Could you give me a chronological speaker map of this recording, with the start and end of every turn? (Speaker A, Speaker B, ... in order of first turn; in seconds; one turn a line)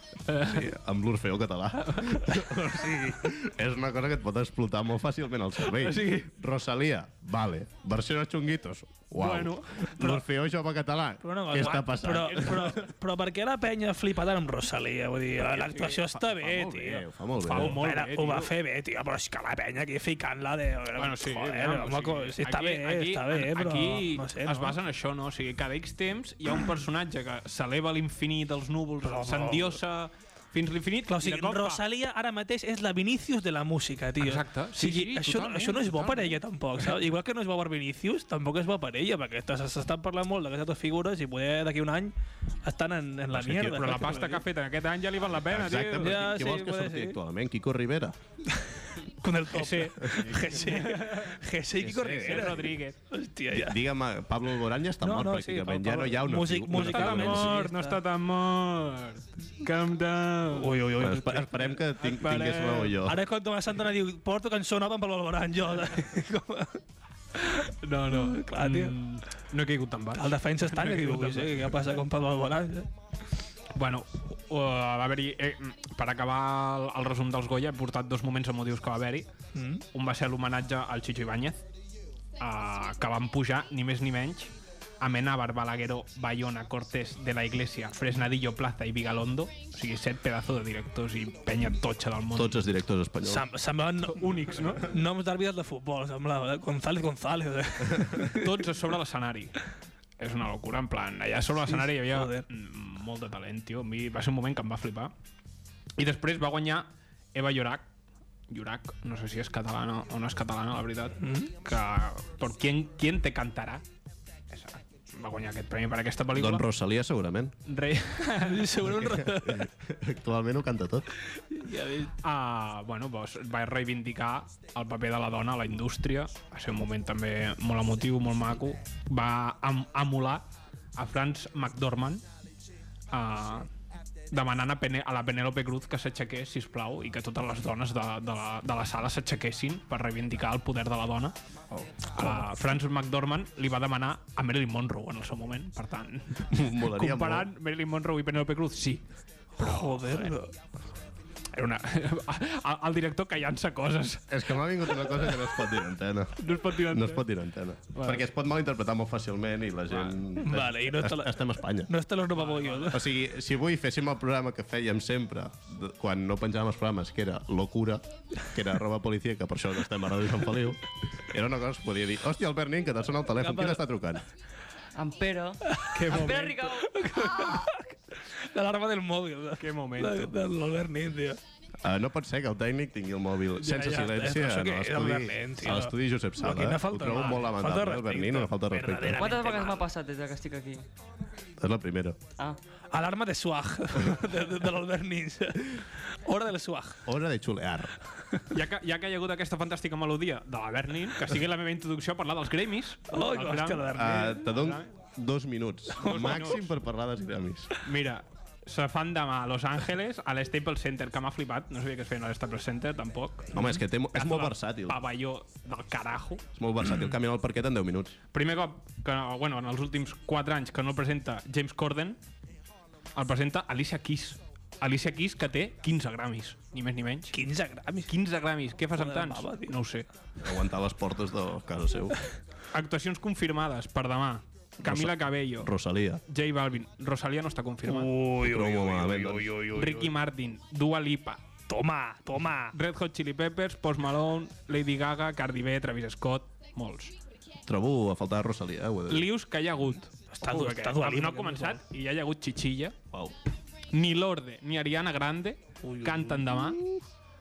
Speaker A: 0.3-0.7
Speaker B: 0.4-12.9
Speaker A: 1.8-2.4
Speaker A: 5.6-6.3
Speaker A: 9.2-10.0
Speaker C: 11.2-24.8
Speaker B: 15.4-17.8
Speaker A: 17.4-18.5
Speaker A: 21.0-31.8
Speaker C: 29.0-29.8
Speaker C: 31.1-44.4
Speaker A: 34.2-36.9
Speaker B: 43.3-44.0
Speaker A: 43.6-46.4
Speaker B: 45.2-48.2
Speaker C: 46.0-47.2
Speaker C: 49.1-53.8
Speaker A: 49.5-53.0
Speaker B: 50.0-50.5
Speaker B: 51.8-52.7
Speaker B: 53.5-57.6
Speaker C: 55.0-58.0
Speaker A: 56.7-60.7
Speaker C: 60.5-61.6
Speaker B: 61.0-63.2
Speaker A: 62.0-63.0
Speaker C: 63.0-66.8
Speaker A: 67.4-71.8
Speaker C: 68.1-69.0
Speaker C: 70.2-72.9
Speaker A: 73.8-79.3
Speaker C: 79.5-79.8
Speaker A: 79.9-81.7
Speaker A: 82.4-92.6
Speaker B: 92.3-93.5
Speaker C: 93.2-98.6
Speaker A: 94.0-94.9
Speaker A: 98.2-99.6
Speaker A: 100.2-105.1
Speaker C: 101.7-102.5
Speaker A: 106.0-107.9
Speaker A: 108.5-113.8
Speaker C: 111.2-111.5
Speaker A: 114.5-116.7
Speaker B: 116.3-117.5
Speaker A: 117.7-118.8
Speaker C: 118.4-119.7
Speaker B: 118.9-121.1
Speaker C: 121.5-122.1
Speaker A: 122.2-132.2
Speaker A: 133.1-133.7
Speaker A: 134.3-141.4
Speaker C: 141.8-142.4
Speaker A: 142.1-149.1
Speaker B: 146.5-147.5
Speaker A: 149.6-150.4
Speaker C: 149.6-150.5
Speaker A: 151.5-155.5
Speaker B: 154.3-161.9
Speaker A: 156.4-157.3
Speaker A: 157.9-158.3
Speaker A: 159.9-160.2
Speaker C: 160.4-163.1
Speaker A: 162.3-163.0
Speaker B: 162.9-174.2
Speaker C: 173.4-173.8
Speaker D: 174.9-177.5
Speaker C: 175.7-176.3
Speaker A: 175.9-176.7
Speaker C: 176.8-181.4
Speaker A: 179.6-180.4
Speaker B: 181.8-189.4
Speaker A: 183.6-184.2
Speaker C: 183.7-189.9
Speaker D: 189.2-190.8
Speaker B: 191.6-192.2
Speaker C: 192.9-197.0
Speaker B: 197.1-197.9
Speaker A: 198.5-204.9
Speaker C: 203.1-204.5
Speaker B: 203.9-207.7
Speaker A: 206.0-206.7
Speaker C: 206.0-206.6
Speaker A: 207.8-216.4
Speaker B: 213.5-215.0
Speaker B: 216.6-218.2
Speaker A: 218.3-222.2
Speaker A: 223.2-227.4
Speaker C: 227.3-228.1
Speaker A: 228.1-230.1
Speaker C: 228.9-229.8
Speaker B: 230.4-232.2
Speaker A: 232.7-235.7
Speaker B: 234.8-236.2
Speaker A: 236.3-238.1
Speaker C: 237.8-240.1
Speaker B: 238.4-239.6
Speaker A: 239.7-241.4
Speaker C: 241.7-242.8
Speaker A: 242.7-247.1
Speaker B: 247.7-249.3
Speaker A: 249.1-253.0
Speaker C: 250.3-251.8
Speaker A: 253.9-256.8
Speaker B: 256.0-257.0